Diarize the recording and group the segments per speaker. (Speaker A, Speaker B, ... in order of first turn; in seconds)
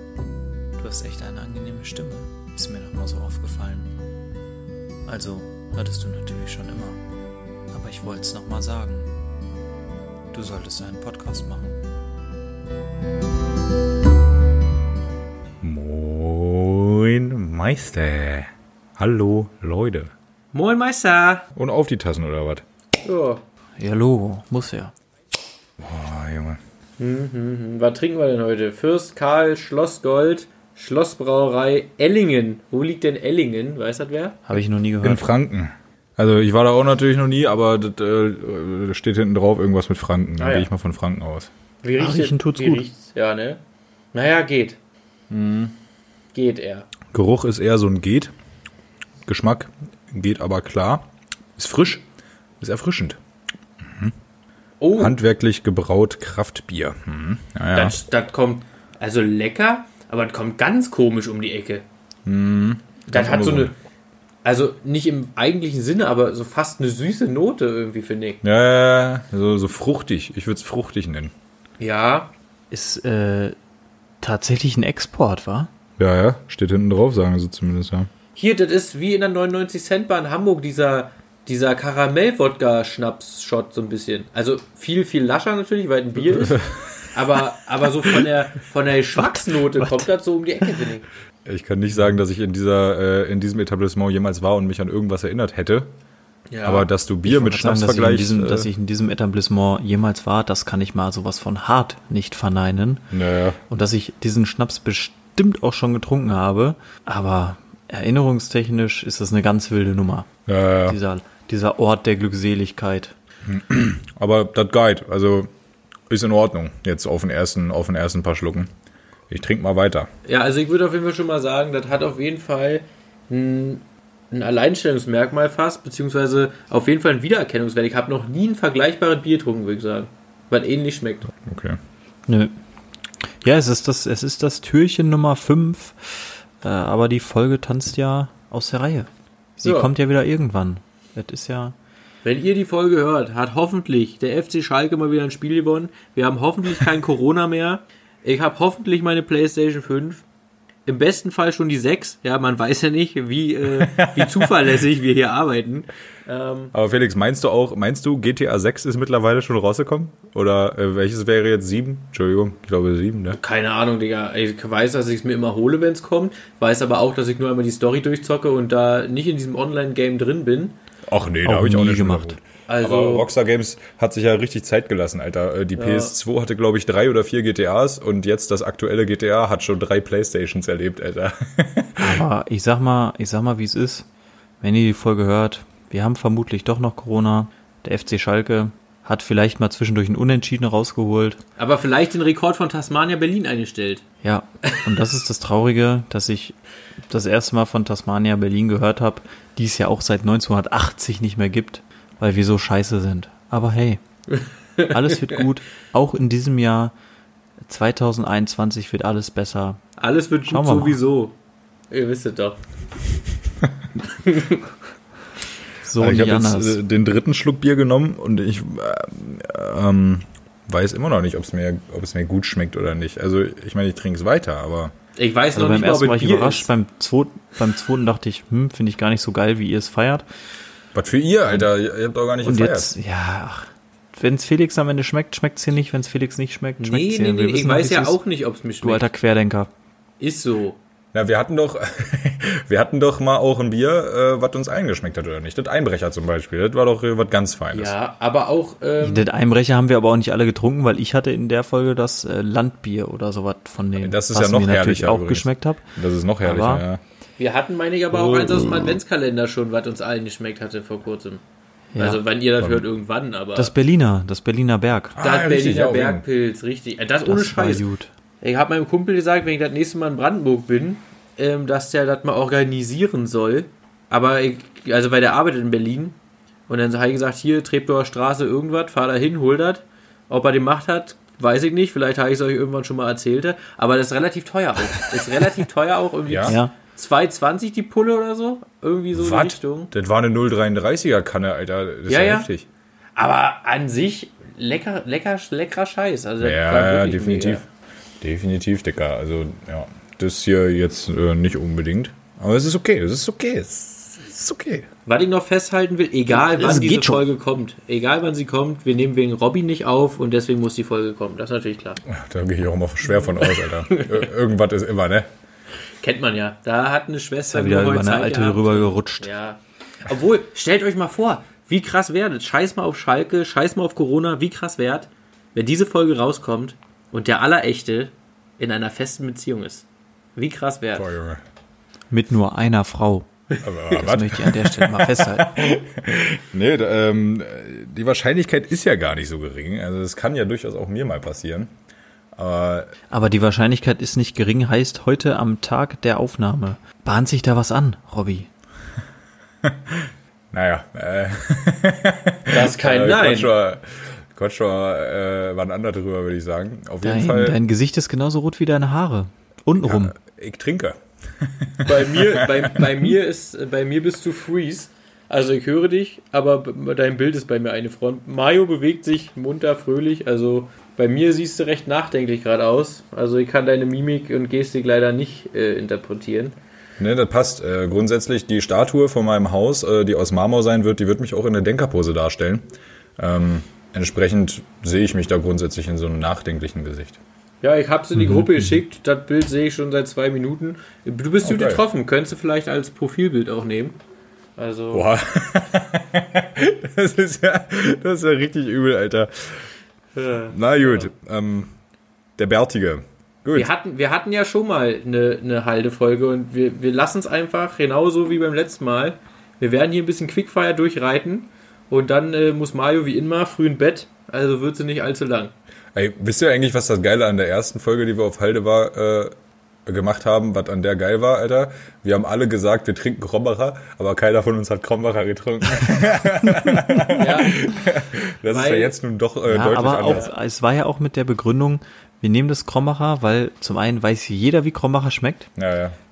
Speaker A: 0.8-3.9, 5.1-7.0, 7.7-9.1, 10.3-11.8, 23.8-24.9, 34.5-35.3, 42.0-42.9, 72.7-73.5, 74.2-75.7, 89.8-90.0, 97.2-103.0, 103.7-110.3, 110.8-113.1, 132.3-132.5, 133.2-141.7, 171.4-172.4, 182.0-184.1, 184.6-191.4, 194.2-196.6, 197.1-204.0, 204.9-206.9, 207.7-209.8, 210.4-211.0, 215.8-216.8, 225.5-230.2, 232.4-238.2, 238.8-239.7, 249.0-256.8, 258.1-258.9, 261.9-262.2, 263.5-265.1, 267.2-268.1, 286.4-286.7, 306.3-307.2, 317.5-319.3, 332.1-333.3, 333.9-335.7, 343.1-348.5, 357.0-360.1, 429.5-435.5
Speaker B: 15.6-20.1, 21.5-22.6, 25.8-26.6, 35.0-41.5, 45.3-45.7, 47.1-48.3, 49.2-52.0, 52.6-53.2, 53.8-54.1, 55.0-58.0, 62.2-63.7, 68.4-71.3, 76.0-78.1, 86.4-87.2, 91.4-95.9, 96.6-98.7, 103.1-103.6, 110.5-111.0, 113.4-115.5, 116.1-118.7, 119.3-120.1, 131.4-131.8, 153.7-154.6, 156.7-163.4, 171.1-182.2, 216.0-224.9, 230.9-232.9, 241.1-247.9, 254.0-257.0, 265.1-266.2, 286.3-286.5, 289.1-292.7, 296.4-297.6, 298.2-304.9, 312.1-315.3, 330.9-331.4, 333.6-341.7, 342.4-342.9, 349.6-357.6, 359.8-362.9, 377.0-382.7, 383.2-387.2, 391.4-391.8, 394.9-399.7, 400.5-401.7, 402.4-403.7, 415.9-419.3, 419.9-430.3, 435.6-435.9
Speaker C: 20.5-21.4, 23.0-23.4, 27.0-34.4, 40.4-40.7, 41.8-43.6, 44.1-44.8, 46.3-46.9, 54.8-55.1, 57.7-61.8, 63.1-63.7, 64.4-68.4, 71.8-72.3, 78.3-86.6, 87.1-91.1, 96.5-96.9, 120.2-131.3, 139.6-139.9, 142.2-150.2, 150.8-156.7, 163.3-170.8, 172.7-173.3, 175.8-176.1, 191.6-194.0, 204.3-205.4, 210.0-211.3, 211.9-212.6, 214.2-214.6, 225.2-226.7, 236.8-239.1, 240.2-240.8, 247.7-249.3, 257.4-261.4, 262.0-263.7, 265.2-267.8, 268.4-276.1, 276.7-289.9, 292.1-292.5, 293.1-297.6, 305.1-312.0, 313.5-314.2, 316.0-329.8, 330.4-331.1, 352.5-353.5, 361.8-376.6, 387.6-393.9, 394.6-395.1, 400.1-401.1, 403.5-415.5, 427.1-427.7, 428.4-428.9